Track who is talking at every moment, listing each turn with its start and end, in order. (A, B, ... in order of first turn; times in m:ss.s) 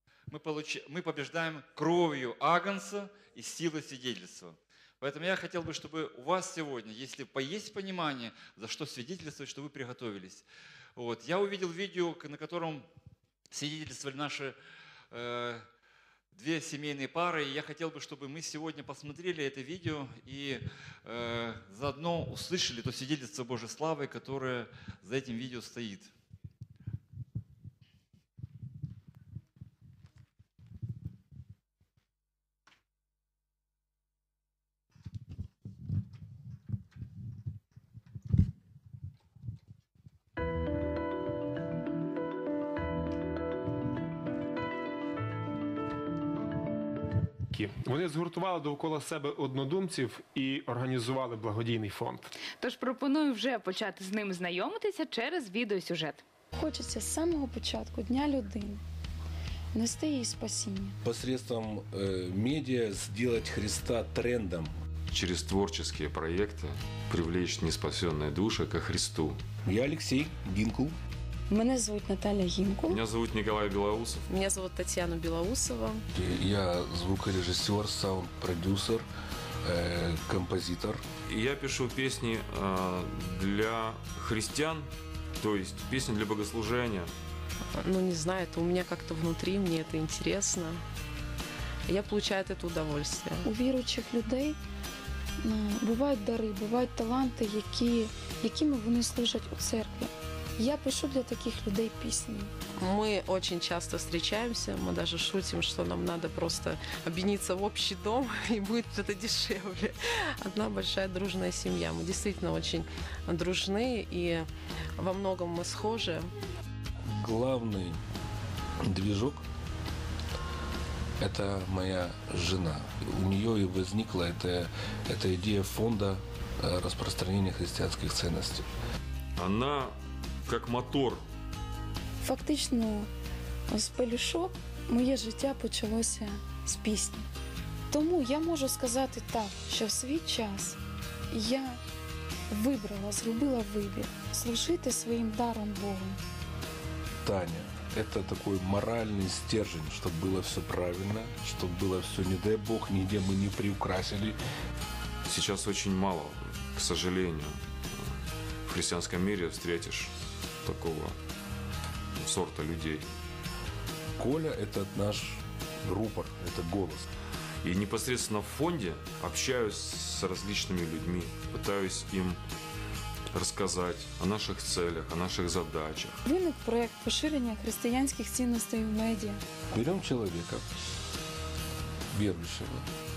0:00.3-0:10.4 A
0:11.0-0:12.8 A
0:13.5-0:14.6 A
0:15.1-0:15.6 A
0:16.3-0:26.1 A
0:47.5-0:52.3 B
0:52.6-0:56.2 C
0:56.6-0:58.8 D
0:59.7-1:01.0 D
1:01.0-1:04.7 E
1:05.1-1:09.4 F
1:09.7-1:10.9 E
1:11.5-1:13.0 D
1:12.9-1:14.2 F
1:14.3-1:16.0 G
1:16.2-1:19.0 E
1:19.7-1:21.0 E
1:21.3-1:27.1 F
1:27.8-1:30.8 G
1:31.9-1:33.4 G
1:33.4-1:34.6 D
1:35.4-1:42.5 D
1:42.8-1:49.9 G
1:50.4-1:56.3 G
1:57.2-1:58.0 E
1:58.9-1:59.4 E
2:01.2-2:08.6 E
2:09.4-2:11.2 F
2:12.2-2:13.1 D
2:13.7-2:17.2 D
2:17.9-2:20.8 D
2:21.3-2:21.8 D
2:22.5-2:26.2 D
2:27.2-2:34.3 E
2:35.2-2:38.1 F
2:38.6-2:41.2 F
2:42.2-2:43.1 F
2:44.2-2:47.0 E
2:47.6-2:52.4 F
2:53.3-2:56.2 F
2:56.2-2:59.4 D
2:59.7-3:00.6 E
3:02.1-3:02.8 E